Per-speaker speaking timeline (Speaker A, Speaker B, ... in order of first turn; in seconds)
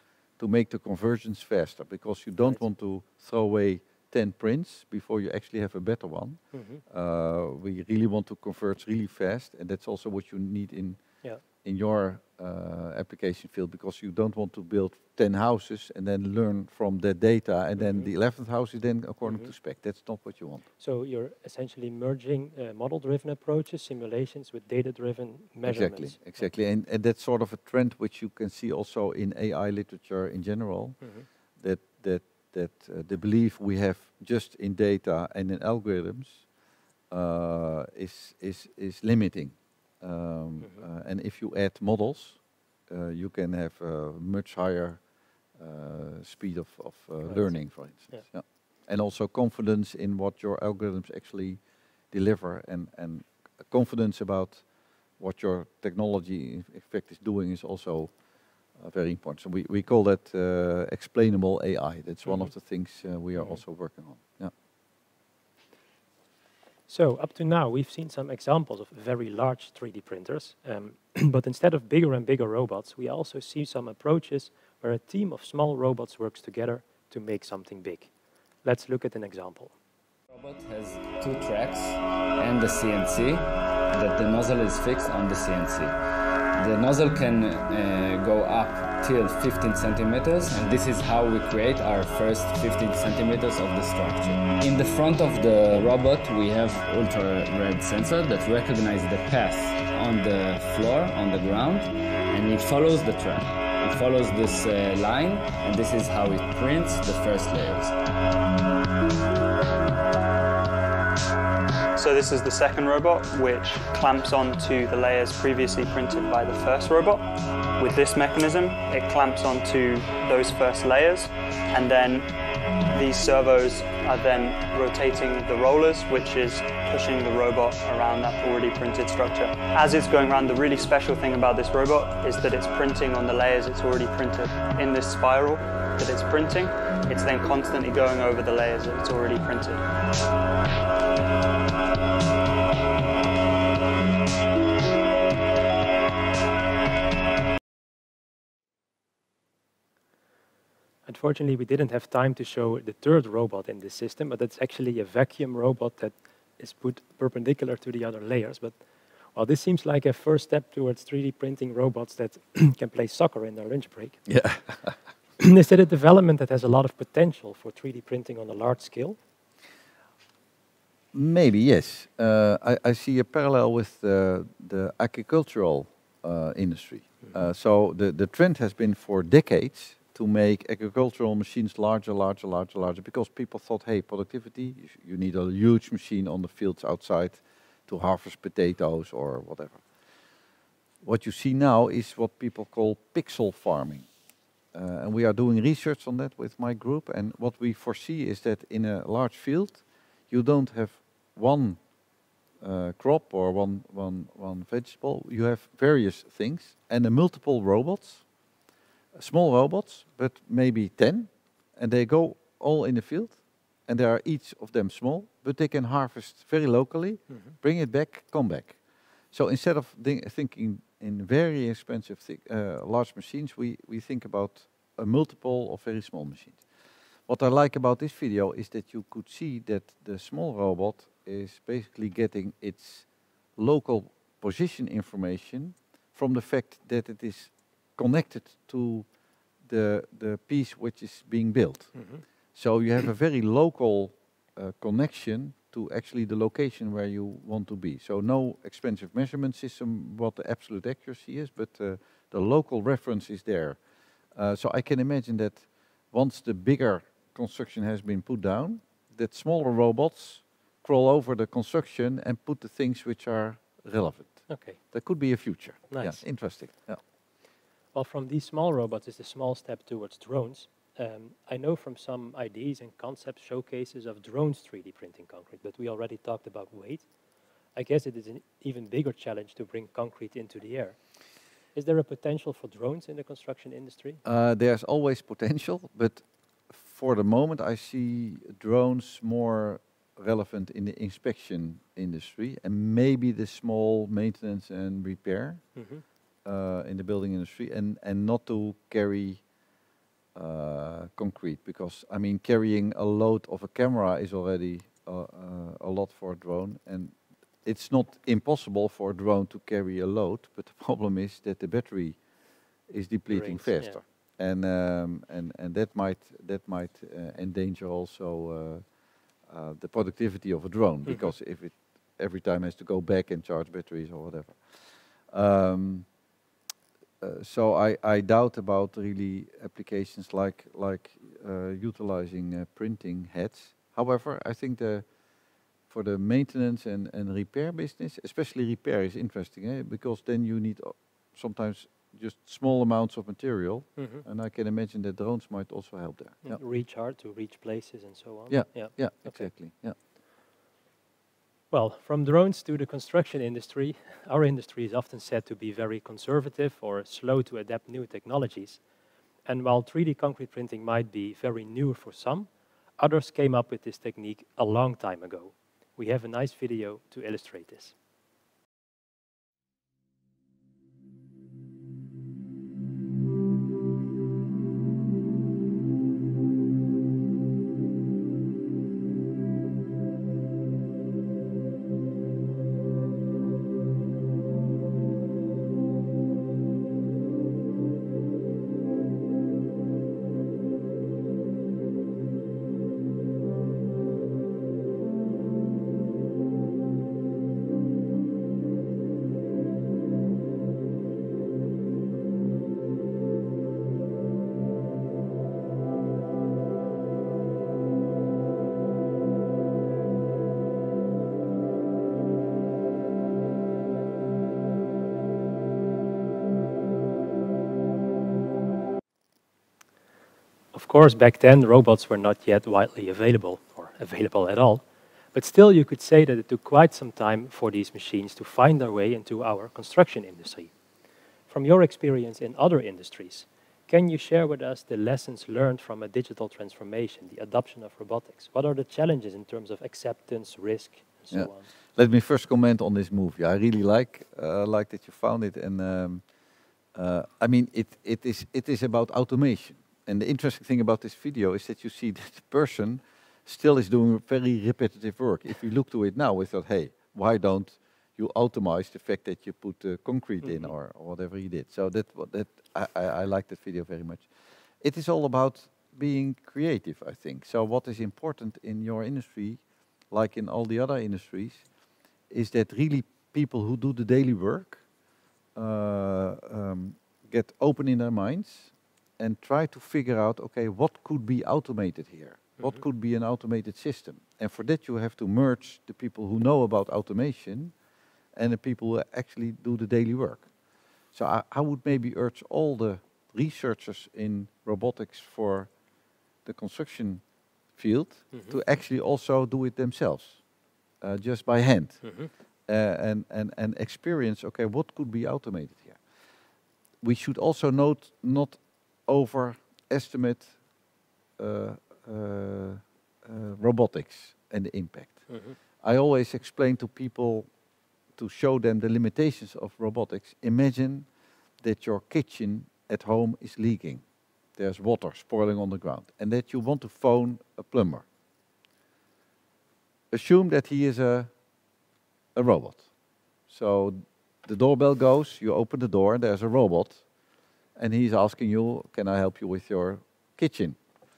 Speaker A: 0.4-11.0, 11.6-20.6, 25.6-36.5, 37.1-45.0, 45.6-54.7, 55.2-58.1, 58.8-64.5, 164.3-165.0, 171.1-189.8, 191.0-194.1, 194.7-201.8, 202.6-208.2, 209.1-218.8, 219.3-226.6, 227.3-239.1, 239.6-242.0, 242.5-253.8, 254.3-267.0, 284.2-295.7, 296.4-299.4, 300.4-312.2, 312.9-318.9, 319.5-326.1, 327.2-335.1, 335.9-346.6, 348.5-350.0, 441.3-446.2, 446.9-464.3, 464.8-471.7, 472.3-474.8, 475.6-487.7, 488.4-490.5, 491.1-495.7, 496.4-497.2, 497.8-500.4, 501.0-506.0, 507.0-510.6, 511.4-517.5, 518.2-521.1, 521.6-524.0, 524.6-528.0, 530.1-531.3, 532.4-532.9, 533.5-537.0, 537.8-540.8
Speaker B: 6.5-6.8, 17.8-18.1, 19.3-19.5, 20.8-26.4, 31.0-31.3, 47.2-48.2, 66.9-78.1, 78.6-79.8, 151.1-158.8, 159.3-164.2, 165.4-169.2, 217.3-217.6, 241.9-242.2, 264.5-264.8, 265.9-266.2, 267.9-277.1, 277.8-281.0, 281.7-284.2, 295.8-296.0, 313.3-314.0, 321.1-321.3, 344.0-344.2, 346.4-349.5, 351.7-358.8, 359.5-367.9, 420.7-430.7, 431.5-441.7, 460.4-460.7, 498.3-498.6, 502.0-502.3, 515.3-515.6
Speaker C: 80.3-86.0, 86.6-107.9
Speaker D: 112.0-122.3, 122.9-139.8